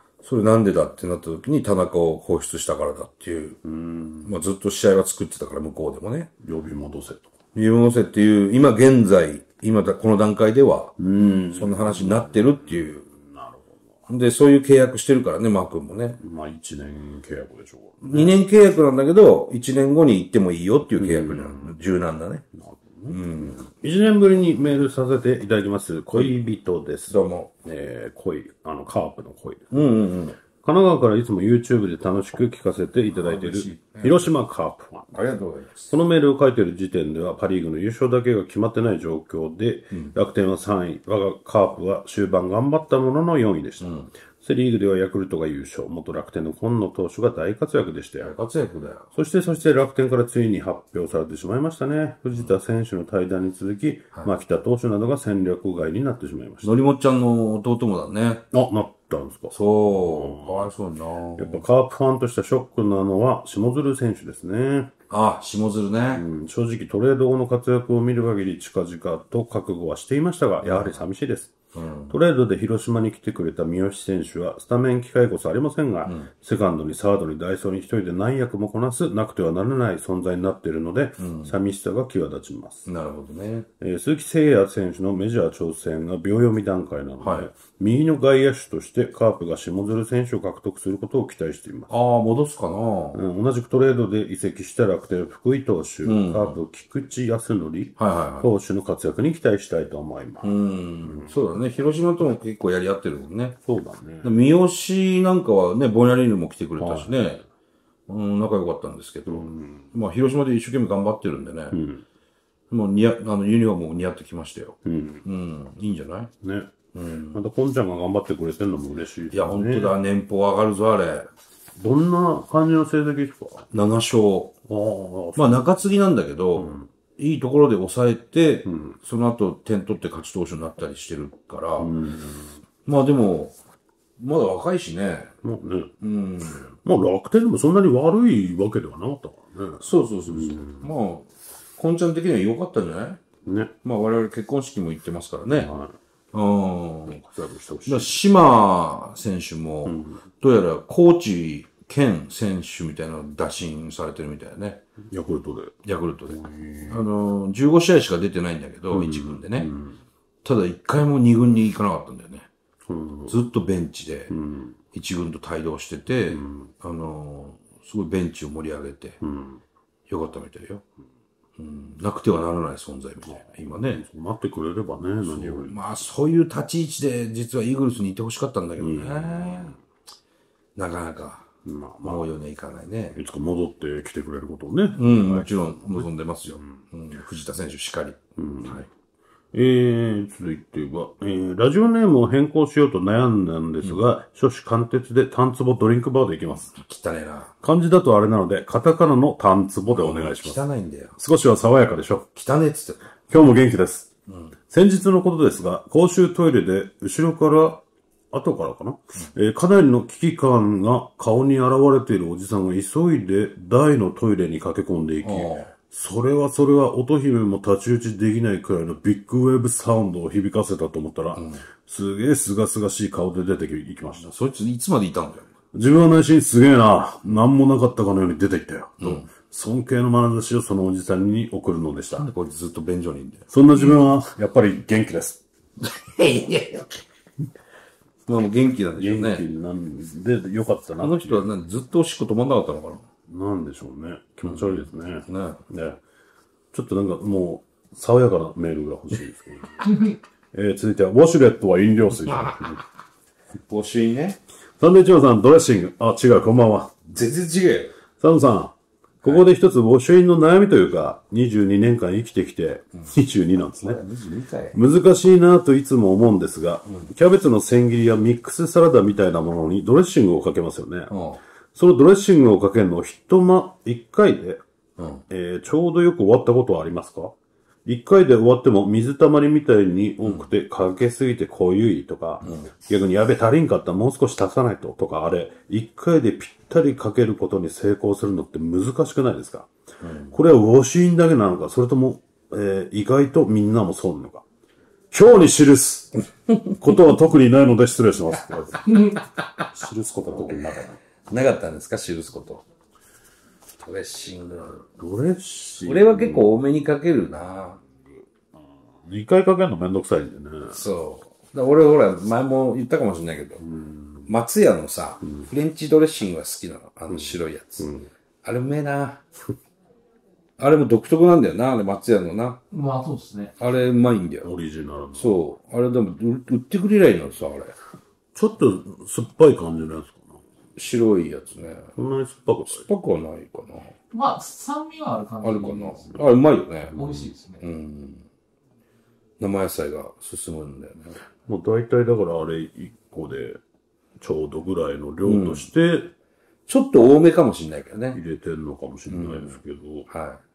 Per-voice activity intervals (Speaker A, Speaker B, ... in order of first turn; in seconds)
Speaker A: 0.2-3.6, 4.2-6.3, 7.5-11.0, 11.5-13.0, 14.1-16.2, 18.0-22.4, 23.1-23.6, 27.1-27.5, 29.7-30.4, 33.1-34.3, 35.1-35.9, 43.8-44.1, 48.2-49.1, 56.6-58.5, 59.5-61.6, 65.1-66.2, 70.6-71.0, 71.7-72.1, 81.2-81.5, 82.9-83.7, 87.2-87.5, 91.9-93.2, 96.0-96.6, 98.0-98.5, 100.4-103.6, 104.2-107.4, 108.1-111.8, 112.7-116.3, 116.9-117.4, 119.3-121.3, 123.7-124.5, 125.4-131.9, 132.9-133.6, 134.2-135.3, 136.0-136.7, 139.8-143.2, 143.8-145.7, 146.3-147.2, 147.9-154.8, 155.8-159.7, 160.4-162.5, 163.3-164.3, 164.9-169.2, 170.1-170.8, 171.6-174.0, 175.2-179.8, 180.8-181.5, 182.0-183.2, 184.9-188.9, 196.7-197.5, 199.9-201.2, 202.3-203.0, 215.2-215.7, 221.4-221.6, 224.2-225.5, 229.0-229.3, 232.2-233.5, 235.8-237.0, 238.3-239.5, 241.0-243.1, 244.5-245.6, 253.7-254.4, 257.1-257.9, 263.8-264.8, 271.1-271.4, 275.0-275.2, 290.0-290.4, 301.3-302.6, 303.8-304.8, 305.9-307.8, 310.7-313.6, 314.3-317.9, 318.4-319.2, 320.6-322.6, 323.6-324.5, 325.2-327.8, 330.8-331.9, 332.7-333.9, 335.4-337.0, 337.6-338.3, 339.4-341.1, 345.2-345.7, 346.7-348.2, 349.1-349.6, 350.1-350.4
Speaker B: 3.6-4.3, 6.4-7.3, 11.0-13.9, 16.2-18.3, 21.0-21.8, 22.5-29.9, 30.5-35.1, 35.9-48.3, 49.1-56.7, 58.5-60.7, 61.4-64.9, 66.1-71.5, 72.1-82.9, 83.8-91.9, 93.1-101.3, 103.7-104.3, 106.8-107.2, 109.3-109.9, 111.7-112.0, 114.8-115.2, 116.4-116.7, 117.3-119.9, 121.8-123.7, 124.7-125.6, 126.6-126.9, 128.7-129.0, 131.8-132.6, 135.4-135.9, 136.8-140.9, 143.4-143.7, 145.5-145.9, 147.1-148.2, 149.8-150.2, 155.1-155.8, 156.3-157.1, 158.9-160.0, 162.9-163.3, 164.3-164.8, 166.3-166.7, 169.2-169.6, 173.3-175.8, 178.8-179.8, 181.7-182.3, 183.1-186.7, 188.4-188.9, 189.5-196.7, 197.6-200.6, 201.2-202.3, 203.3-204.1, 204.7-224.3, 225.7-232.3, 233.5-235.4, 239.0-241.4, 243.3-246.0, 246.7-252.8, 254.8-257.0, 258.2-264.0, 264.7-271.1, 271.8-274.6, 275.3-289.7, 290.3-294.4, 295.1-301.0, 304.9-306.5, 308.6-310.8, 313.6-314.3, 315.2-315.5, 317.1-318.1, 324.4-325.4, 328.4-330.4, 332.0-332.9, 336.9-337.3, 341.5-343.6, 344.2-346.1, 348.1-350.1
Speaker C: 322.7-323.5, 334.1-336.2, 336.9-337.6